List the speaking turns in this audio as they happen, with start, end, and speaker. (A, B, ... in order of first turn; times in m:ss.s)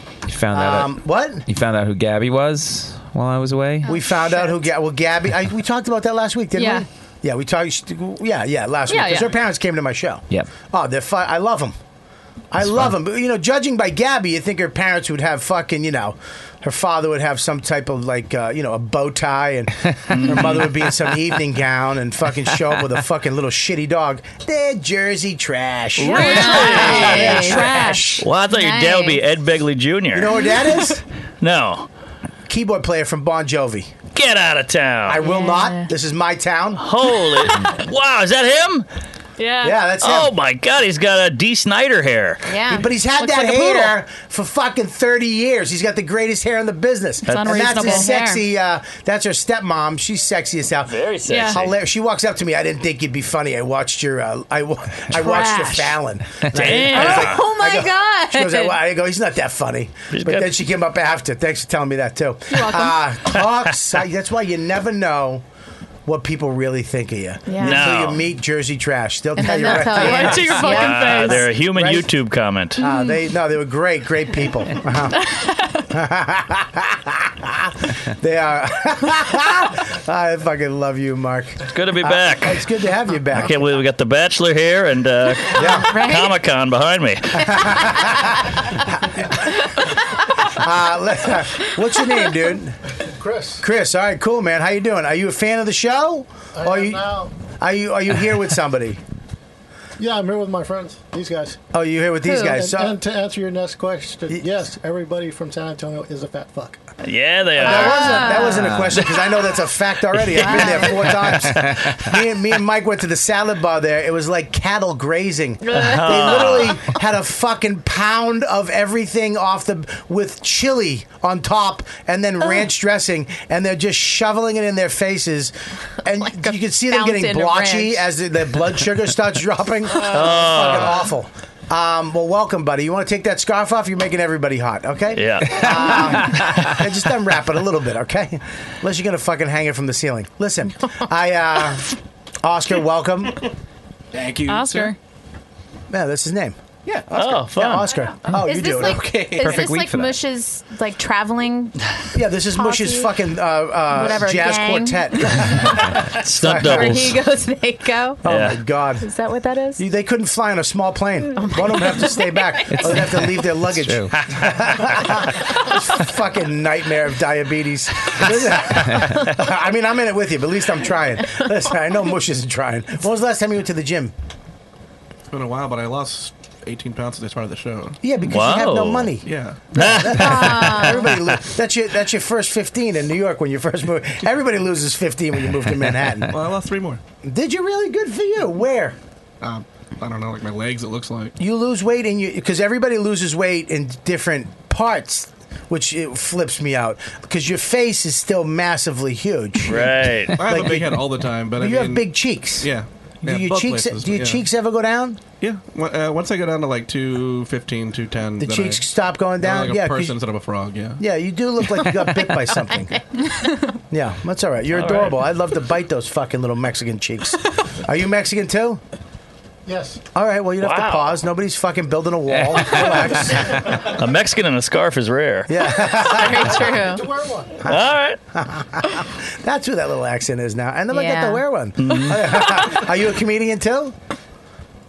0:00.3-0:00.9 A
0:00.5-0:01.5 B
0:01.5-0:03.9 A
0:03.9-0:04.5 C
0:03.9-0:11.8 B
0:06.5-0:06.9 C
0:08.9-0:09.3 C
0:12.5-0:28.2 B
0:20.1-0:20.7 D
0:26.0-0:28.1 C
0:26.0-0:29.2 E
0:26.1-0:27.5 D
0:28.2-0:30.3 D
0:30.1-0:31.0 B
0:31.4-0:31.9 D
0:32.5-0:33.9 B
0:34.2-0:35.2 D
0:35.1-0:36.8 B
0:35.2-0:35.5 E
0:35.2-0:35.9 C
0:36.8-0:38.9 D
0:39.4-0:39.8 C
0:39.6-0:40.3 B
0:40.0-0:42.4 D
0:42.5-0:42.9 E
0:42.7-1:05.4 B
0:43.2-0:44.0 C
0:47.2-0:48.4 C
0:47.3-0:47.8 D
0:47.7-0:48.2 E
0:50.9-0:51.7 D
0:51.3-0:51.6 C
0:56.5-0:57.4 D
0:56.9-0:58.7 E
1:00.1-1:00.5 D
1:02.5-1:03.0 C
1:06.1-1:12.1 B
1:07.5-1:07.8 E
1:07.6-1:08.3 D
1:09.4-1:11.4 E
1:09.6-1:11.4 C
1:10.6-1:12.8 D
1:12.8-1:15.3 B
1:12.8-1:13.2 C
1:15.9-1:23.7 B
1:21.7-1:22.6 D
1:23.3-1:27.8 D
1:25.6-1:25.9 B
1:25.7-1:26.3 E
1:27.4-1:29.6 B
1:30.4-1:32.8 B
1:33.2-1:33.6 F
1:33.6-1:39.0 B
1:36.6-1:37.3 F
1:40.0-1:41.6 F
1:41.7-1:43.0 B
1:42.2-1:42.6 E
1:42.5-1:46.8 F
1:47.0-1:48.3 D
1:47.6-2:21.9 B
1:47.6-1:48.9 E
1:48.5-1:49.0 A
1:50.4-1:51.1 E
1:55.6-1:56.6 E
1:55.8-1:56.8 D
2:06.2-2:08.0 E
2:10.0-2:11.0 D
2:15.2-2:16.2 D
2:22.4-2:23.4 B
2:24.1-2:24.9 G
2:24.4-2:25.0 C
2:25.9-2:26.6 B
2:26.9-2:27.4 G
2:27.2-2:27.9 D
2:27.5-2:29.7 B
2:28.3-2:31.7 E
2:29.1-2:29.4 G
2:29.4-2:30.2 A
2:32.1-2:37.1 B
2:32.5-2:33.1 E
2:33.9-2:36.0 E
2:36.1-2:37.2 D
2:36.6-2:38.2 E
2:38.2-2:39.1 B
2:38.3-2:38.6 D
2:39.0-2:39.8 E
2:39.8-2:54.1 B
2:41.3-2:43.0 E
2:42.7-2:44.1 A
2:48.9-2:49.2 A
2:55.3-2:58.0 G
2:58.0-3:06.3 B
2:58.3-2:59.1 D
2:59.2-3:00.0 G
2:59.7-3:01.4 D
3:00.1-3:01.1 E
3:06.3-3:07.0 G
3:07.2-3:09.0 B
3:09.4-3:11.4 G
3:11.4-3:21.0 B
3:19.6-3:20.4 D
3:20.4-3:24.4 G
3:21.6-3:22.7 B
3:23.2-3:25.2 B
3:25.4-3:28.8 G
3:28.4-3:30.2 B
3:29.4-3:31.0 G
3:31.0-3:33.0 B
3:33.9-3:38.8 B
3:34.7-3:35.2 D
3:39.7-3:40.0 F
3:40.2-3:43.8 B
3:40.6-3:41.1 D
3:42.3-3:43.0 A
3:43.5-3:43.9 F
3:43.8-3:45.5 D
3:45.5-3:46.8 B
3:45.8-3:47.0 E
3:46.6-3:47.6 F
3:47.6-3:54.0 B
3:47.6-3:48.2 D
3:50.9-3:51.4 E
3:51.8-3:52.6 D